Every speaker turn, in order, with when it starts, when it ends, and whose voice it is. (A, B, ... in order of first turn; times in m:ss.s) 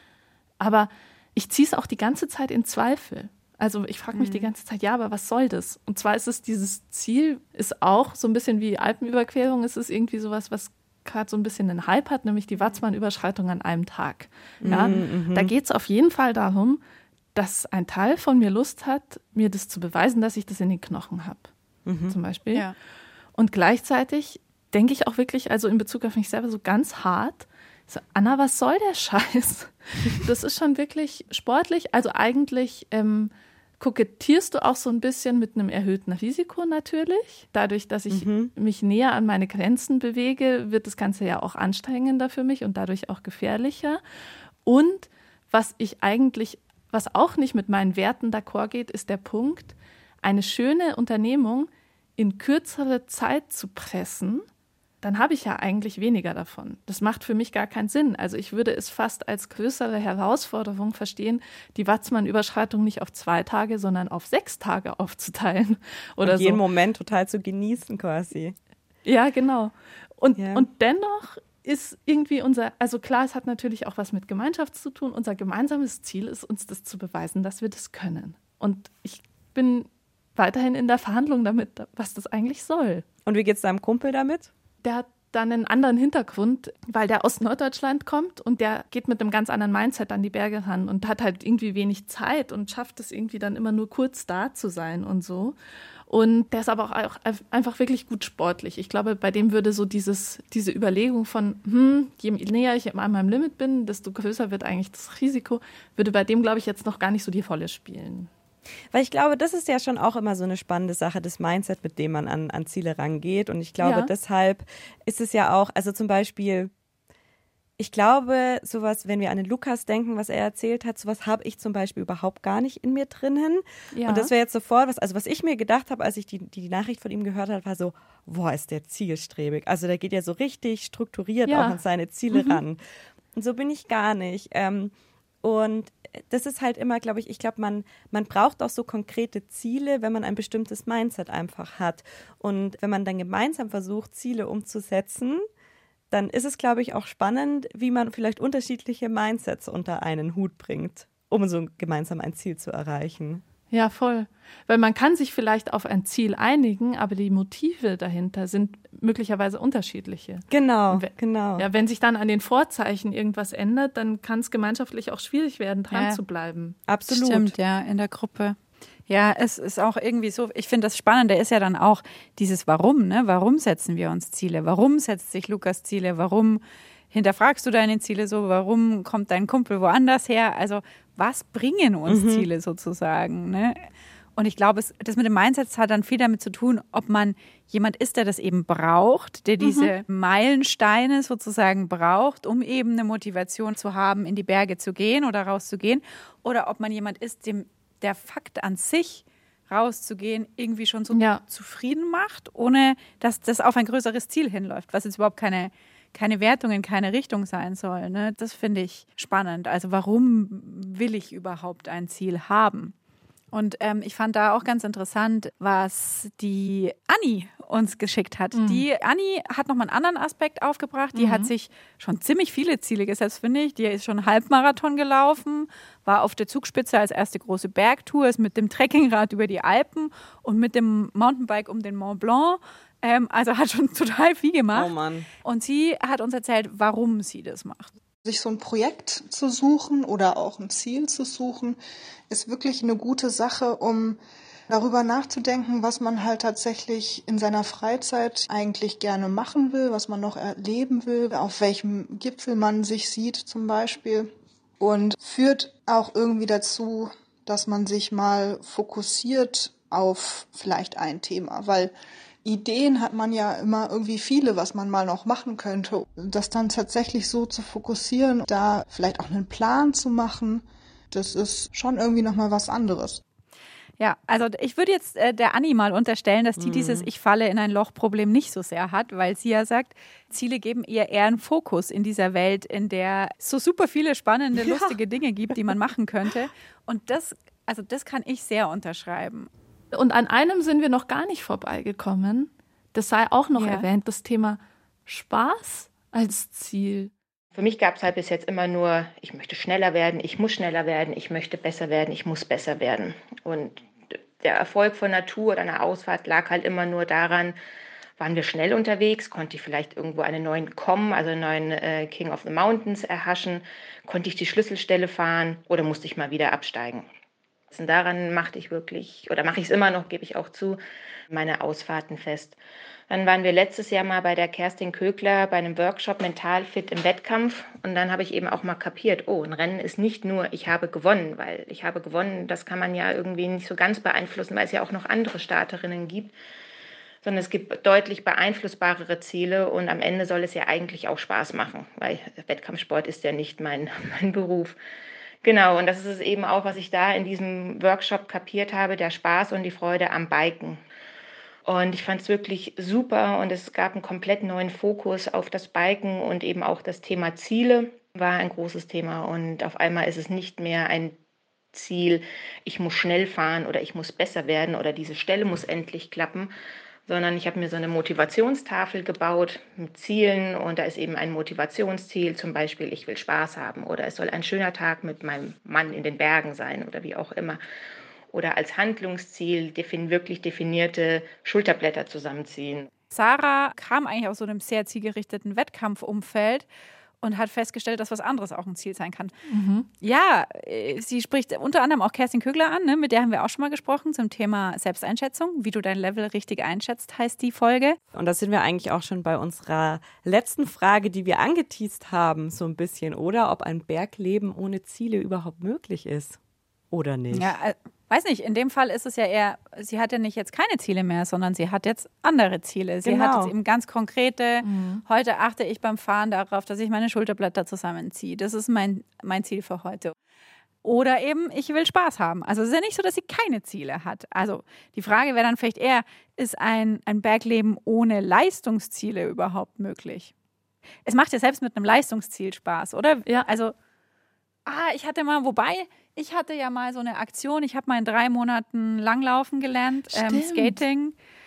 0:00.6-0:16.8 A
0:04.1-0:04.5 B
0:14.6-0:15.5 C
0:17.3-0:21.5 A
0:21.8-0:22.2 C
0:22.1-0:22.6 A
0:23.4-0:44.0 A
0:38.1-0:38.5 C
0:44.6-0:54.4 A
0:55.0-1:06.6 A
1:06.2-1:08.6 C
1:09.0-1:23.0 A
1:10.3-1:10.7 C
1:23.2-1:24.5 C
1:24.8-1:35.6 A
1:36.1-1:48.3 A
1:48.9-1:56.7 C
1:53.8-1:54.1 A
1:57.8-2:12.8 C
2:03.9-2:04.3 A
2:11.4-2:11.8 A
2:12.3-2:12.6 A
2:13.3-2:25.4 C
2:26.1-2:33.4 C
2:33.7-2:46.8 A
2:40.5-2:41.6 C
2:45.9-2:46.2 B
2:46.9-2:47.5 C
2:47.1-2:48.6 B
2:49.1-2:56.6 B
2:57.1-3:03.8 B
3:02.1-3:02.5 C
3:04.4-3:32.9 B
3:09.6-3:09.9 A
3:21.1-3:21.4 A
3:33.5-3:54.9 B
3:38.5-3:38.8 A
3:41.1-3:41.5 A
3:54.7-3:55.3 C
3:55.4-3:57.9 B
3:58.2-4:01.8 D
4:02.3-4:04.2 D
4:04.7-4:21.9 D
4:22.4-4:33.2 D
4:34.0-4:49.5 B
4:36.6-4:37.1 C
4:44.6-4:45.0 C
4:49.9-4:57.1 A
4:53.5-4:53.8 B
4:57.5-5:07.6 E
5:08.2-5:17.1 E
5:17.7-5:20.8 E
5:21.3-5:22.6 E
5:23.1-5:36.3 E
5:37.2-5:44.8 E
5:45.4-5:50.8 E
5:51.6-6:01.2 E
6:01.7-6:06.5 E
6:07.1-6:17.6 E
6:18.3-6:22.9 E
6:23.1-6:26.7 B
6:27.2-6:29.3 B
6:29.5-6:29.9 A
6:30.0-6:38.0 B
6:38.1-6:46.4 C
6:46.9-6:47.5 C
6:47.3-7:00.1 B
6:53.0-6:53.5 C
6:54.6-6:55.0 A
7:00.8-7:10.3 B
7:11.0-7:13.7 B
7:14.6-7:21.1 B
7:20.1-7:20.8 A